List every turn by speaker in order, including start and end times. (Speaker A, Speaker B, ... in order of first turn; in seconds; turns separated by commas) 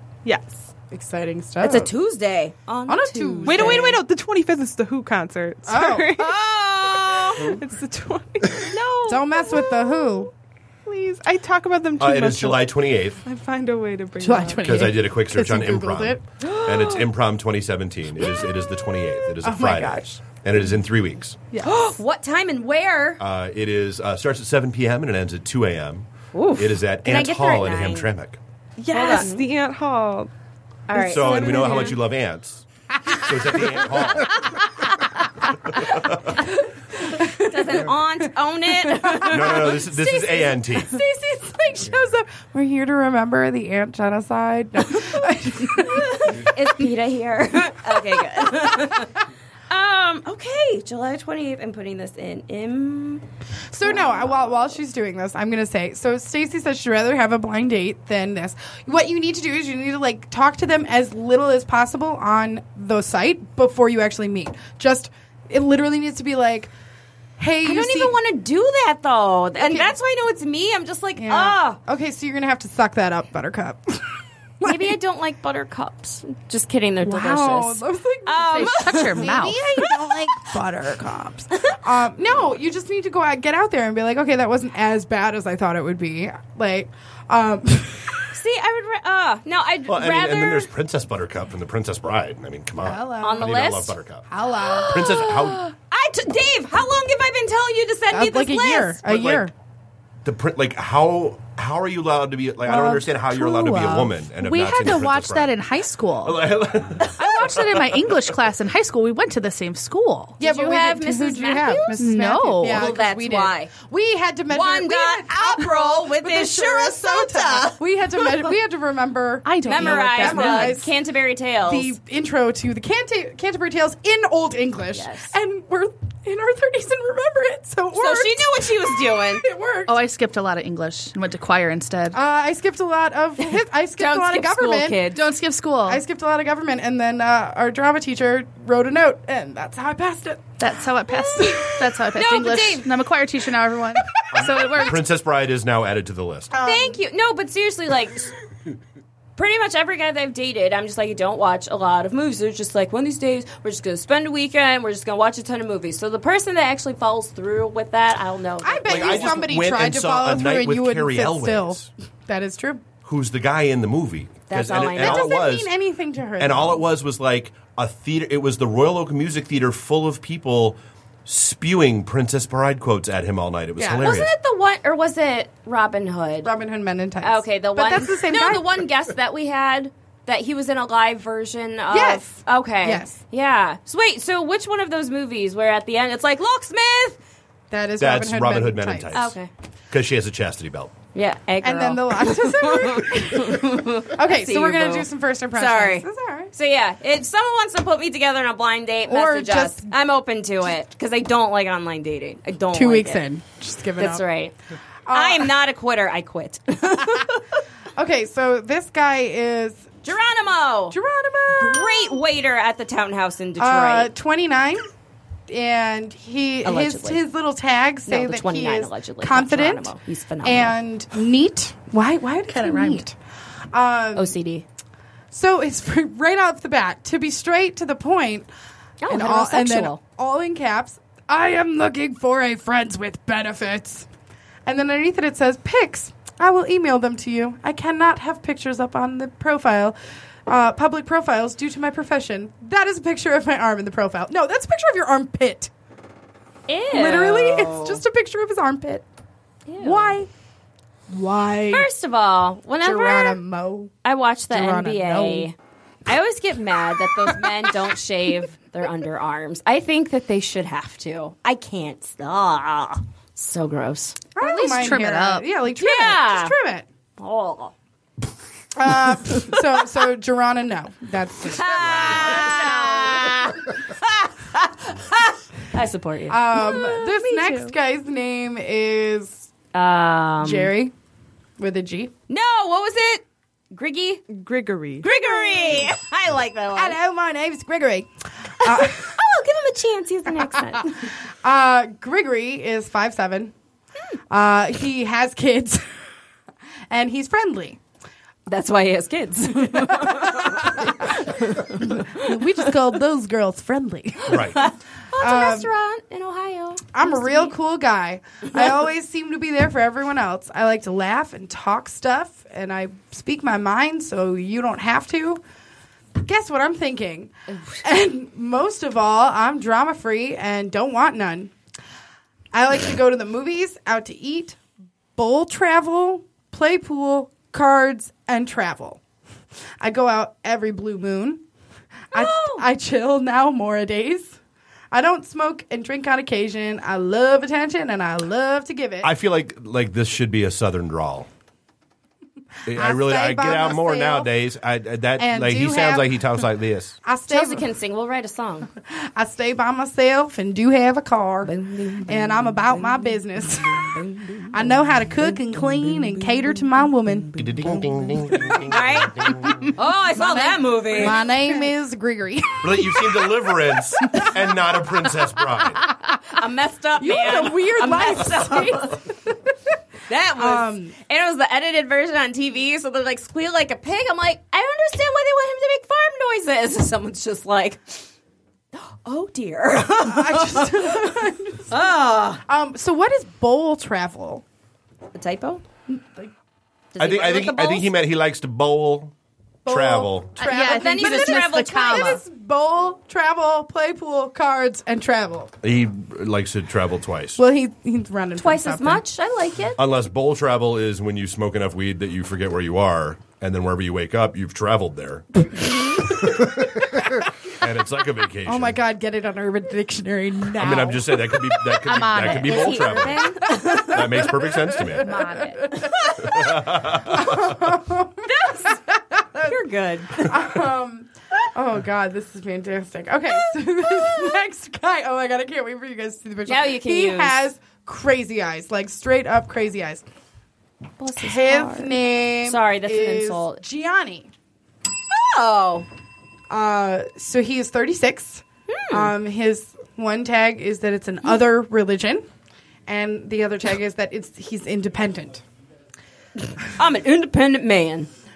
Speaker A: 0.2-0.7, Speaker B: 0.9-1.9, Speaker C: 1.6-4.0, Speaker B: 2.9-4.0, Speaker A: 3.4-6.3, Speaker B: 5.7-6.1, Speaker C: 6.2-7.6, Speaker A: 6.9-10.3, Speaker C: 8.7-9.2, Speaker B: 9.1-10.3, Speaker A: 10.8-14.9, Speaker D: 12.0-13.2, Speaker B: 14.2-16.2, Speaker D: 14.6-21.5, Speaker C: 16.4-17.1, Speaker B: 19.4-20.1, Speaker C: 21.6-23.2, Speaker D: 23.2-28.4, Speaker C: 26.3-28.1, Speaker A: 28.8-30.3, Speaker C: 28.9-29.4, Speaker C: 30.9-32.0, Speaker D: 30.9-34.4, Speaker A: 31.3-31.8, Speaker D: 35.7-36.2, Speaker B: 37.0-37.9, Speaker C: 37.2-39.7, Speaker B: 38.8-46.5, Speaker D: 39.2-41.0, Speaker C: 45.8-53.2, Speaker B: 48.1-48.8, Speaker B: 53.7-66.7, Speaker C: 53.8-54.6, Speaker B: 67.4-68.1, Speaker C: 67.6-71.8, Speaker B: 69.6-69.9, Speaker B: 71.2-75.0, Speaker C: 74.6-80.3, Speaker B: 77.0-88.2, Speaker E: 78.5-79.7, Speaker C: 88.3-90.7, Speaker D: 89.9-94.3, Speaker B: 92.8-93.7, Speaker C: 93.2-93.9, Speaker B: 94.3-95.1, Speaker C: 94.6-99.0, Speaker D: 94.9-95.7, Speaker B: 98.1-99.5, Speaker D: 99.0-99.5, Speaker D: 100.2-105.5, Speaker B: 102.6-104.2, Speaker E: 104.3-106.4, Speaker D: 106.2-108.0, Speaker E: 107.0-110.4, Speaker C: 110.4-113.7, Speaker B: 110.4-120.9, Speaker E: 111.9-112.9, Speaker C: 114.5-118.5, Speaker E: 119.4-120.8, Speaker C: 119.6-121.9, Speaker B: 121.6-130.0, Speaker C: 124.9-125.3, Speaker C: 127.9-129.4, Speaker E: 129.8-132.2, Speaker B: 132.1-135.0, Speaker C: 133.4-135.2, Speaker E: 135.1-136.0, Speaker B: 135.8-140.6, Speaker E: 140.6-145.0, Speaker C: 141.3-142.9, Speaker D: 144.3-146.5, Speaker B: 146.5-147.0, Speaker C: 146.6-148.3, Speaker C: 149.3-159.5, Speaker B: 158.6-162.9, Speaker D: 158.8-161.9, Speaker D: 163.0-165.7, Speaker C: 164.5-165.4, Speaker B: 164.8-166.8, Speaker D: 166.4-174.3, Speaker B: 173.8-174.1, Speaker C: 173.9-176.5, Speaker B: 176.4-178.8, Speaker C: 177.2-187.2, Speaker B: 181.9-183.2, Speaker B: 187.7-189.2, Speaker D: 188.0-189.3, Speaker C: 189.1-189.5, Speaker D: 189.9-190.9, Speaker C: 191.1-203.2, Speaker B: 191.6-196.5, Speaker B: 199.1-199.9, Speaker B: 202.7-204.2, Speaker C: 204.0-204.5, Speaker B: 205.1-205.5, Speaker C: 205.1-207.4, Speaker B: 207.9-210.0, Speaker C: 210.0-211.0, Speaker B: 210.9-212.2, Speaker C: 211.5-214.1, Speaker B: 213.6-214.9, Speaker B: 215.5-219.9, Speaker C: 216.6-217.2, Speaker C: 218.1-220.8, Speaker B: 220.4-223.1, Speaker E: 222.5-223.0, Speaker B: 223.7-224.3, Speaker C: 224.1-224.6, Speaker B: 225.3-228.5, Speaker C: 229.0-230.0, Speaker B: 229.1-234.1, Speaker B: 234.7-245.7, Speaker C: 246.7-248.0, Speaker B: 246.9-249.0, Speaker C: 249.7-250.2, Speaker B: 249.8-250.3, Speaker B: 251.1-251.9, Speaker C: 251.7-253.4, Speaker B: 252.8-253.9, Speaker C: 254.0-255.5, Speaker B: 254.5-255.5, Speaker C: 256.1-264.3, Speaker B: 264.3-266.9, Speaker E: 264.4-265.5, Speaker C: 265.8-266.5, Speaker C: 267.2-267.7, Speaker B: 268.7-273.1, Speaker C: 271.5-277.1, Speaker D: 271.9-272.2, Speaker B: 276.3-279.5, Speaker A: 276.7-277.7, Speaker C: 279.7-280.7, Speaker B: 280.4-280.9, Speaker B: 281.6-282.1, Speaker C: 282.3-284.2, Speaker A: 284.3-285.0, Speaker C: 285.0-287.0, Speaker B: 285.1-285.9, Speaker B: 286.7-288.1, Speaker B: 288.6-289.2, Speaker C: 288.6-291.1, Speaker B: 290.7-293.5, Speaker B: 294.3-295.9, Speaker B: 296.9-297.8, Speaker C: 298.5-302.3, Speaker B: 299.7-304.5, Speaker D: 304.3-304.6, Speaker C: 304.5-307.5, Speaker B: 305.2-305.7, Speaker B: 306.9-315.4, Speaker B: 316.2-321.5, Speaker B: 322.5-324.6, Speaker B: 325.1-329.0, Speaker B: 329.8-331.4, Speaker B: 332.1-334.4, Speaker C: 332.1-332.7, Speaker B: 334.9-339.1, Speaker D: 339.0-341.3, Speaker D: 342.7-347.0, Speaker B: 342.7-344.3, Speaker B: 345.2-346.5, Speaker B: 347.0-347.7, Speaker C: 347.3-348.7, Speaker B: 348.8-351.5, Speaker C: 351.4-353.2, Speaker B: 352.1-353.9, Speaker C: 353.7-354.4, Speaker B: 354.5-357.4, Speaker D: 357.4-359.6, Speaker C: 358.7-361.3, Speaker B: 360.2-364.4, Speaker D: 362.6-365.8, Speaker C: 366.3-369.0, Speaker B: 367.0-369.5, Speaker C: 370.1-378.1, Speaker B: 370.4-370.9, Speaker C: 378.7-381.1, Speaker B: 380.0-381.9, Speaker C: 381.7-382.4, Speaker B: 382.4-384.4, Speaker C: 385.1-385.6, Speaker B: 385.9-386.3, Speaker C: 386.9-387.9, Speaker D: 387.0-389.1, Speaker B: 389.6-395.5, Speaker D: 389.6-390.5, Speaker E: 390.4-392.2, Speaker C: 390.5-392.2, Speaker D: 395.6-397.4, Speaker B: 397.4-399.0, Speaker C: 398.4-399.8, Speaker D: 399.8-406.1, Speaker D: 407.6-408.8, Speaker B: 408.4-411.8, Speaker D: 410.6-413.3, Speaker E: 411.8-412.7, Speaker C: 412.4-414.2, Speaker B: 412.6-419.6, Speaker D: 413.9-415.1, Speaker E: 415.0-415.6, Speaker D: 416.2-417.3, Speaker C: 418.2-418.8, Speaker C: 419.4-420.3, Speaker B: 420.2-430.0, Speaker C: 424.0-424.4, Speaker C: 426.4-427.4, Speaker C: 431.0-433.6, Speaker B: 431.2-434.3, Speaker C: 435.1-435.9, Speaker B: 436.5-442.2, Speaker C: 438.7-439.1, Speaker B: 442.9-445.4, Speaker C: 446.7-448.1